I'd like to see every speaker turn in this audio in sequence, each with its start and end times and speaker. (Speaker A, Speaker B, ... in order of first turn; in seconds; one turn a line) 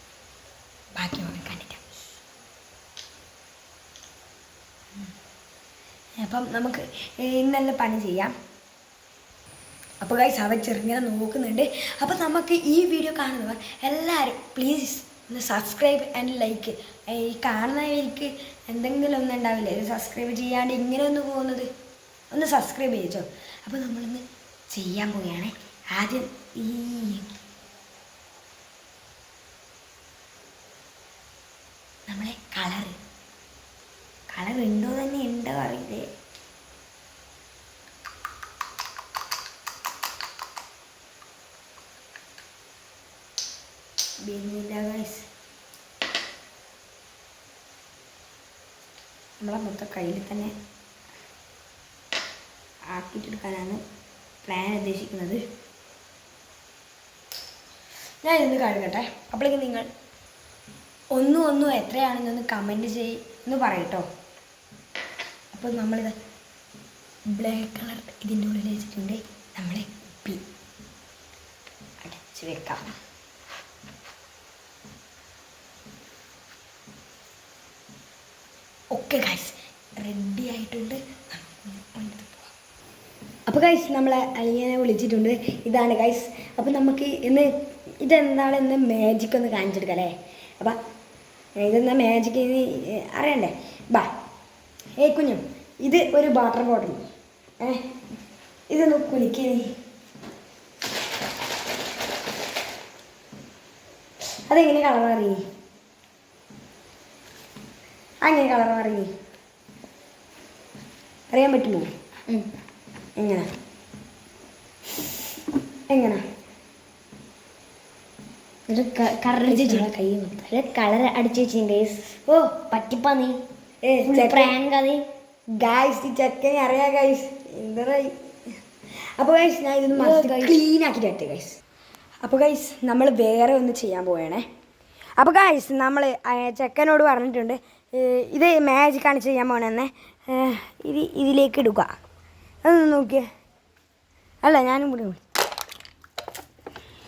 Speaker A: 1.0-2.0
Speaker A: 6.2-8.3
Speaker A: 10.0-21.7
Speaker A: 22.3-27.4
Speaker A: 32.1-33.0
Speaker A: 34.3-36.0
Speaker A: 44.2-45.3
Speaker A: 49.4-50.5
Speaker A: 52.9-53.8
Speaker A: 54.5-55.4
Speaker A: 58.2-59.9
Speaker A: 61.1-64.1
Speaker A: 65.5-66.1
Speaker A: 67.3-70.4
Speaker A: 72.0-72.8
Speaker A: 78.9-82.5
Speaker A: 83.5-87.5
Speaker A: 88.0-90.8
Speaker A: 91.6-94.1
Speaker A: 95.0-97.1
Speaker A: 98.7-99.7
Speaker A: 104.5-105.4
Speaker A: 108.2-109.1
Speaker A: 111.3-111.9
Speaker A: 113.2-113.5
Speaker A: 115.9-116.2
Speaker B: 118.7-119.9
Speaker A: 119.5-120.5
Speaker B: 120.5-123.4
Speaker A: 122.3-122.6
Speaker A: 123.8-124.6
Speaker B: 124.0-125.0
Speaker A: 125.5-128.1
Speaker A: 129.2-131.6
Speaker B: 129.9-130.6
Speaker A: 132.2-134.4
Speaker A: 135.2-141.9
Speaker A: 142.6-143.2
Speaker A: 144.4-145.2